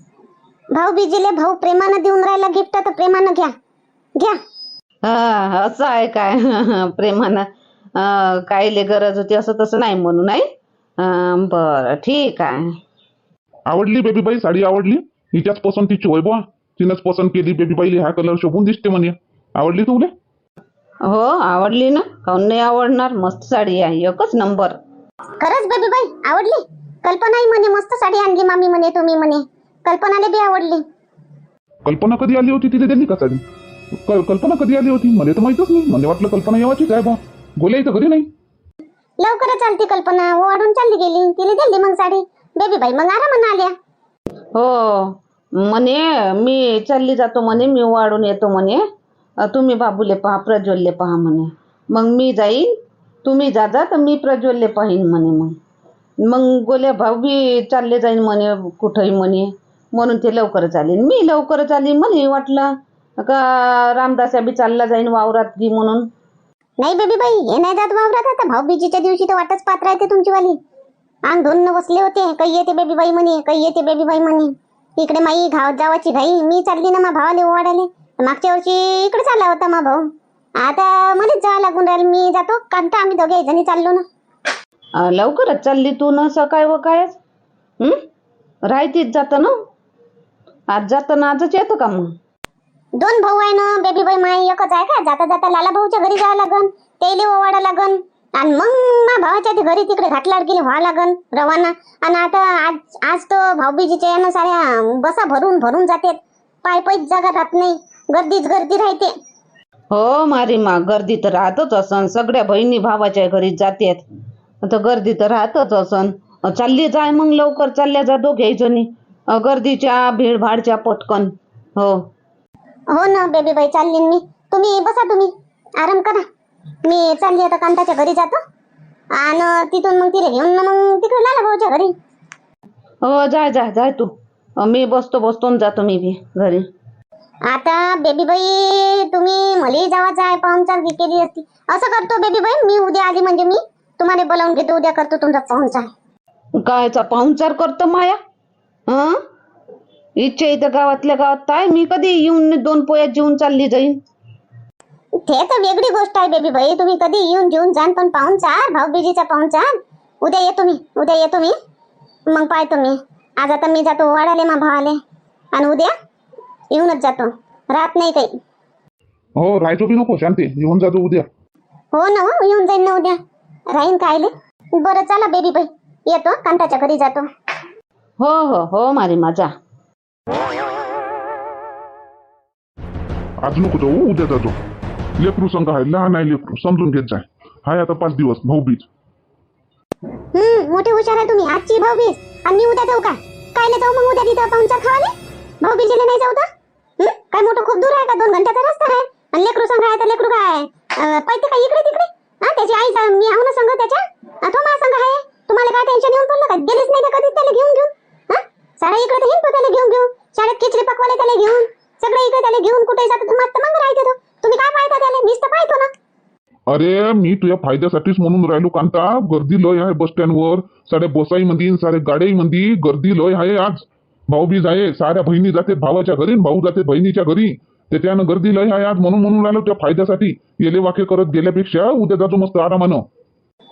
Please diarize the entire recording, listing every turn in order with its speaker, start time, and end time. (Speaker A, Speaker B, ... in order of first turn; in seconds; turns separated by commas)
Speaker A: 0.7-3.5, Speaker B: 5.0-7.5, Speaker B: 8.0-10.5, Speaker B: 11.0-12.7, Speaker C: 13.7-20.1, Speaker B: 21.0-24.8, Speaker A: 25.4-30.8, Speaker C: 31.9-33.4, Speaker C: 34.0-38.3, Speaker A: 39.2-43.7, Speaker B: 44.5-48.8, Speaker B: 49.4-55.5, Speaker B: 56.2-66.1, Speaker A: 66.8-70.6, Speaker A: 71.3-80.0, Speaker A: 80.6-84.0, Speaker B: 85.0-87.2, Speaker B: 88.7-89.5, Speaker B: 90.7-92.1, Speaker A: 93.0-109.1, Speaker B: 109.9-114.0, Speaker B: 114.6-122.0, Speaker A: 122.9-126.2, Speaker A: 126.8-128.4, Speaker A: 129.1-131.9, Speaker B: 133.0-136.6, Speaker A: 137.5-145.9, Speaker B: 146.6-148.2, Speaker B: 148.9-149.2, Speaker B: 150.2-154.0, Speaker A: 155.2-159.7, Speaker A: 160.2-161.6, Speaker A: 162.3-165.0, Speaker A: 165.5-165.9, Speaker A: 166.7-168.3, Speaker C: 169.4-171.3, Speaker A: 171.9-173.2, Speaker A: 173.7-177.3, Speaker B: 178.2-179.5, Speaker C: 183.4-184.6, Speaker C: 185.2-188.9, Speaker A: 190.3-196.5, Speaker A: 197.0-215.9, Speaker C: 216.7-233.0